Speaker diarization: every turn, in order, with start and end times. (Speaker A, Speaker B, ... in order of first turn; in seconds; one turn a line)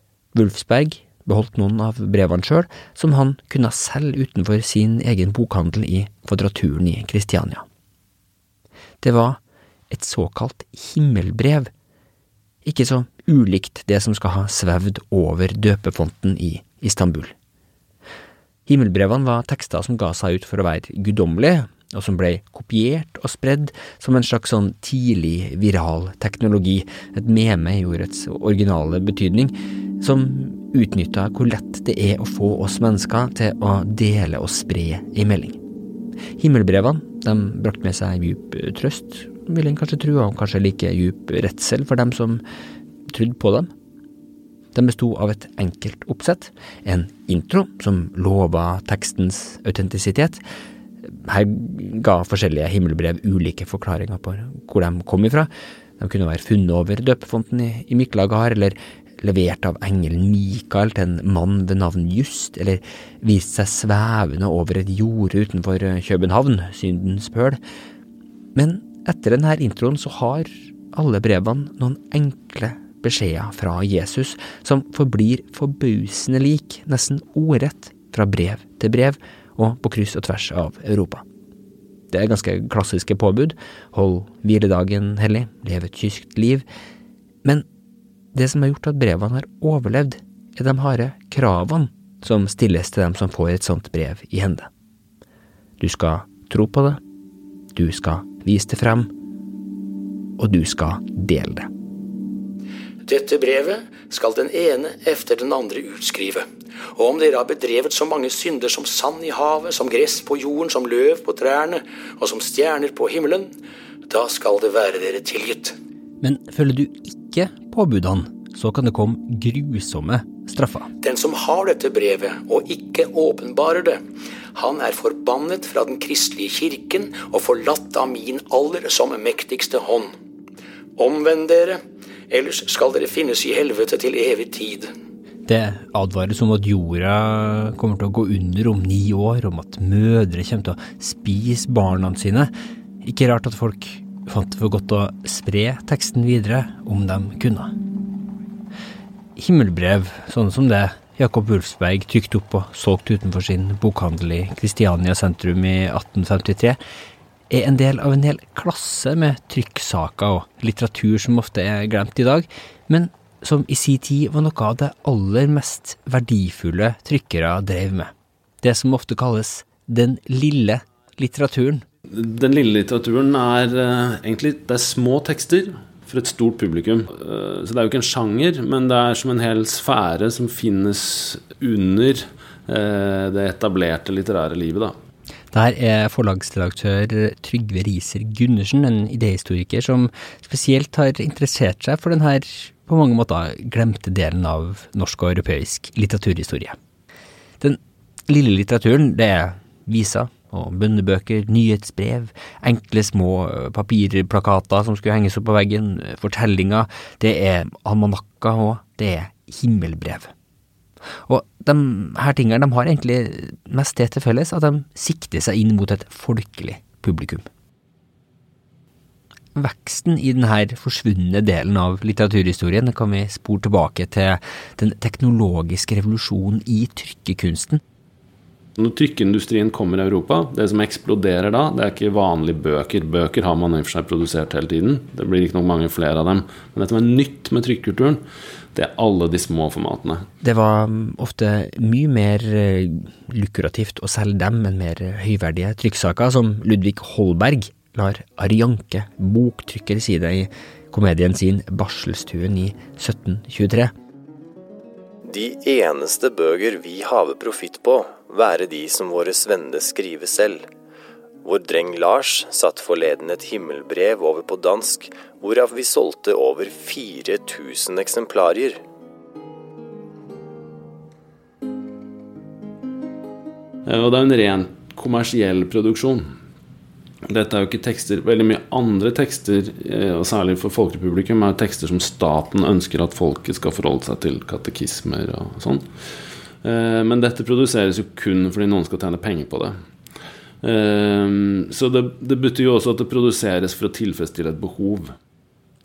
Speaker A: 0.3-7.7
Speaker A: 9.0-9.4
Speaker A: 9.9-11.7
Speaker A: 12.6-17.3
Speaker A: 18.7-35.6
Speaker A: 36.4-42.4
Speaker A: 43.1-43.7
Speaker A: 44.7-50.4
Speaker A: 51.0-67.6
Speaker A: 68.5-81.2
Speaker A: 82.1-86.7
Speaker A: 88.3-94.7
Speaker A: 95.8-97.0
Speaker A: 97.7-99.1
Speaker A: 100.4-101.7
Speaker B: 103.1-113.5
Speaker B: 114.1-115.8
Speaker A: 116.2-120.9
Speaker B: 121.0-124.0
Speaker B: 124.5-130.1
Speaker B: 131.0-134.9
Speaker A: 135.5-142.5
Speaker A: 143.0-147.7
Speaker A: 149.4-156.8
Speaker A: 157.5-171.8
Speaker C: 172.1-185.0
Speaker A: 185.5-196.8
Speaker A: 197.6-210.3
Speaker A: 211.3-217.5
Speaker A: 219.6-227.8
Speaker C: 228.8-238.2
Speaker C: 238.7-240.2
Speaker A: 240.4-253.9
Speaker D: 255.2-260.7
Speaker D: 261.4-268.8
Speaker C: 273.9-276.3
Speaker C: 277.3-286.1
Speaker C: 286.6-289.8
Speaker C: 290.6-295.1